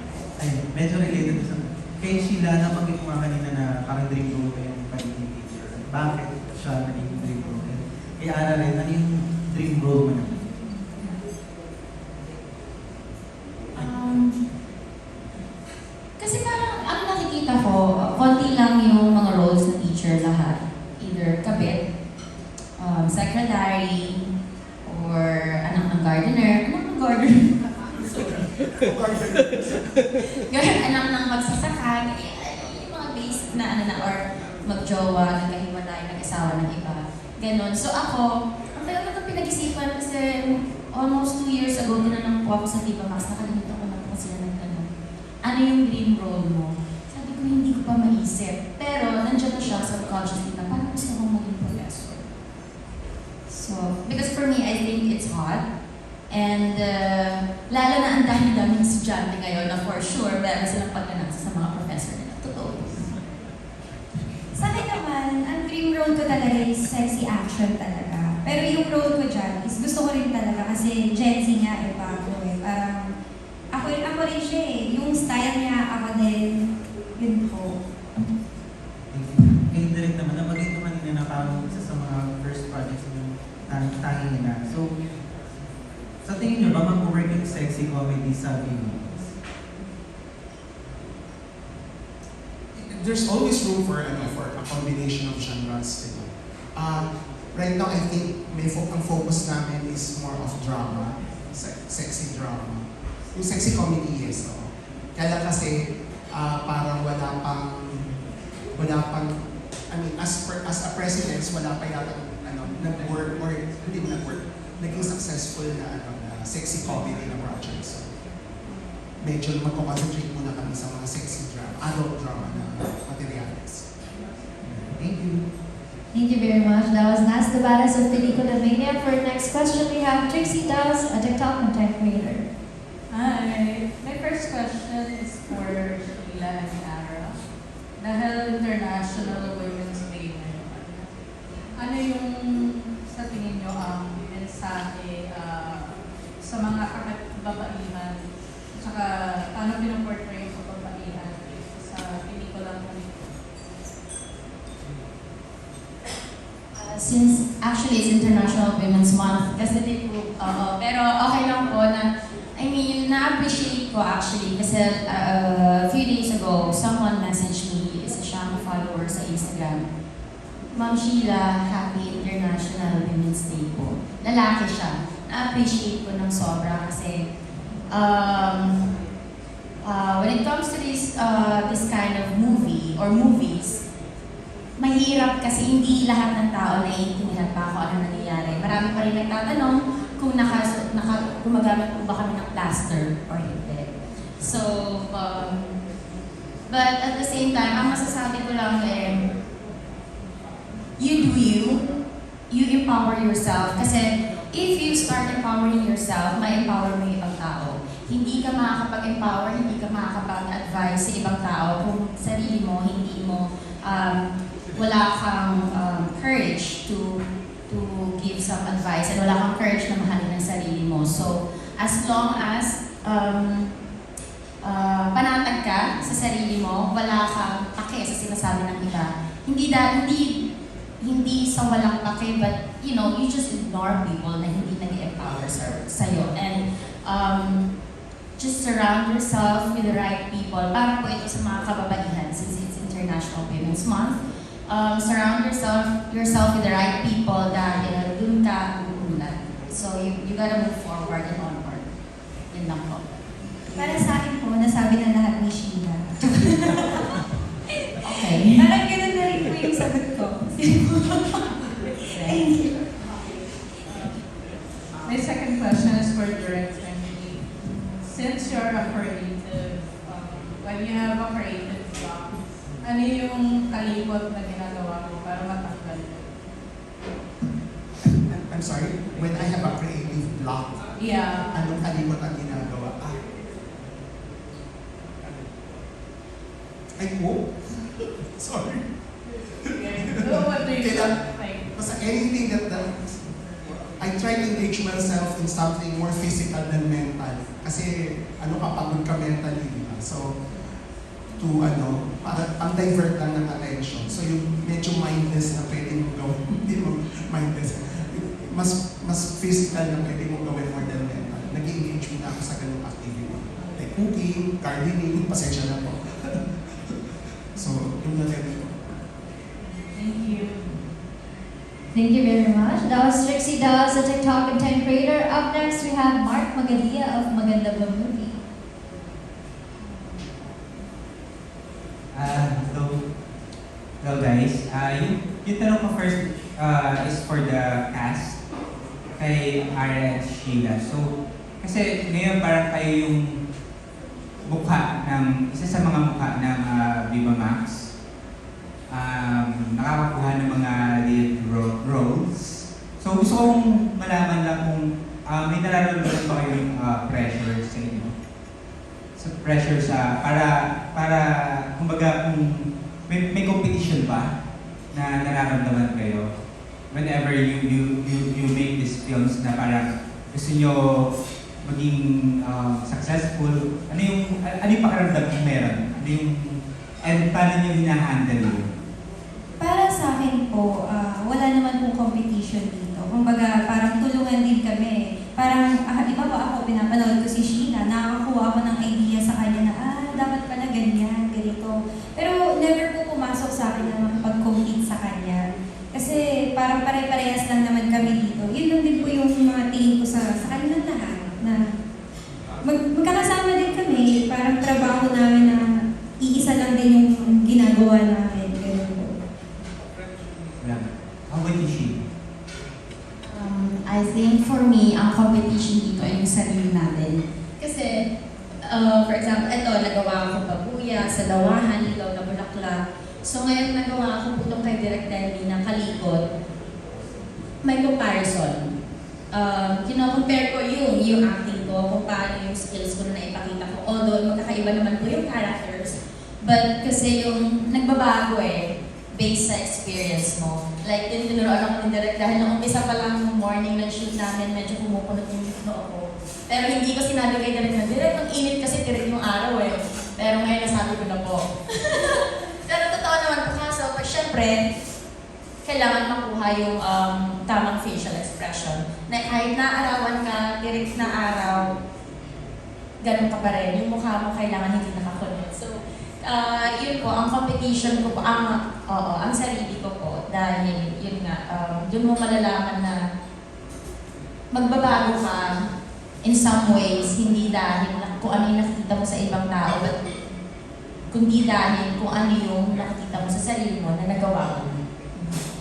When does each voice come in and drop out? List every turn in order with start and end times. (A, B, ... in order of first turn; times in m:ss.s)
0:00.4-0:10.4 A
0:13.8-0:14.3 B
0:16.2-0:21.8 B
0:22.8-0:24.2 B
0:24.9-0:28.4 B
0:28.8-0:29.6 C
0:30.4-0:44.9 B
0:45.4-0:52.2 B
0:53.5-0:53.9 D
0:54.0-0:55.6 B
0:56.3-1:03.0 B
1:04.5-1:13.1 D
1:13.7-1:17.8 D
1:19.1-1:24.9 A
1:26.2-1:29.3 A
1:32.8-1:48.2 C
1:48.7-1:49.4 C
1:49.9-1:58.1 C
1:59.2-2:03.8 C
2:04.8-2:05.4 A
2:06.1-2:12.5 E
2:13.1-2:17.3 F
2:18.0-2:21.2 F
2:21.7-2:28.2 F
2:28.8-2:33.3 F
2:36.8-2:49.8 B
2:50.7-2:57.2 B
2:57.9-2:58.8 B
2:59.9-3:03.8 B
3:04.8-3:13.9 B
3:14.4-3:15.6 B
3:16.7-3:19.2 B
3:21.0-3:21.8 B
3:22.5-3:34.2 B
3:34.8-3:37.2 B
3:37.7-3:43.7 B
3:44.6-3:50.3 B
3:51.0-3:57.7 B
3:58.4-4:04.2 B
4:04.7-4:11.9 B
4:12.5-4:13.1 B
4:13.7-4:14.1 B
4:13.8-4:17.0 D
4:18.0-4:18.7 B
4:18.2-4:21.4 D
4:22.1-4:22.8 D
4:25.0-4:27.5 F
4:28.0-4:36.3 F
4:38.1-4:40.8 C
4:41.0-4:41.5 F
4:41.5-4:43.2 C
4:47.0-4:48.8 C
4:49.8-4:51.6 F
4:49.9-4:51.1 C
4:51.7-4:53.1 C
4:54.0-5:00.4 C
5:01.4-5:16.4 C
5:17.5-5:18.8 C
5:19.7-5:20.8 F
5:21.9-5:28.4 E
5:29.9-5:30.4 F
5:32.1-5:33.0 G
5:34.0-5:38.4 G
5:39.2-5:41.0 G
5:41.6-5:43.2 G
5:44.5-5:47.8 G
5:48.9-5:58.1 G
5:59.2-6:01.2 G
6:01.8-6:02.5 G
6:03.1-6:04.3 G
6:04.9-6:06.3 G
6:06.9-6:11.1 G
6:11.7-6:18.7 G
6:19.6-6:41.6 D
6:42.6-6:45.6 D
6:46.2-6:49.2 D
6:50.6-6:52.0 G
6:53.3-6:58.0 B
6:58.6-7:06.2 B
7:07.6-7:08.7 B
7:09.3-7:34.6 B
7:35.6-7:41.7 B
7:43.0-7:53.0 B
7:54.5-7:55.5 B
7:56.2-7:59.9 B
8:01.1-8:05.2 B